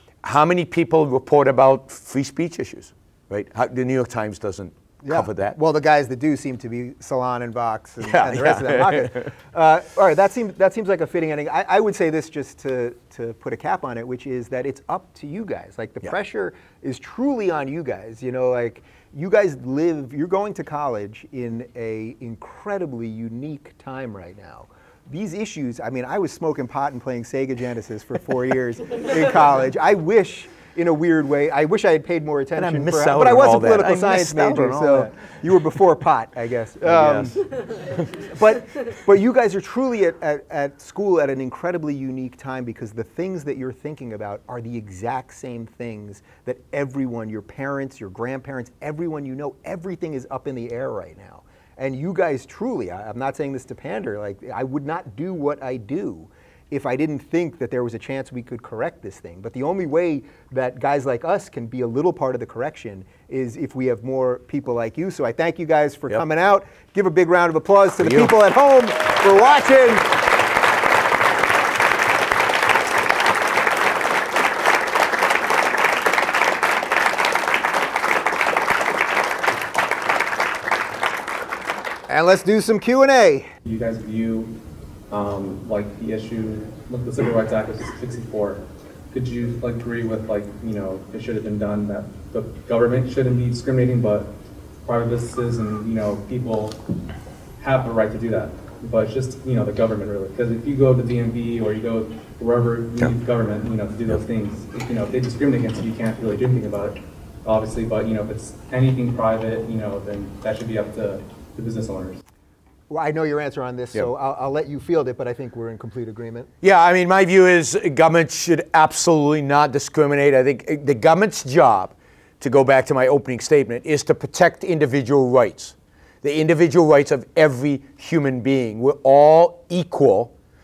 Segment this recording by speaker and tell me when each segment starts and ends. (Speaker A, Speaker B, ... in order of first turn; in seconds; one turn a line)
Speaker A: 0.2-5.6
Speaker B: 5.0-37.3
Speaker A: 8.0-9.3
Speaker A: 32.6-35.1
Speaker A: 36.8-37.3
Speaker B: 38.3-70.2
Speaker A: 68.0-68.3
Speaker B: 82.1-83.5
Speaker C: 83.6-84.6
Speaker C: 85.1-96.8
Speaker C: 97.6-112.2
Speaker B: 112.9-116.5
Speaker A: 116.6-130.3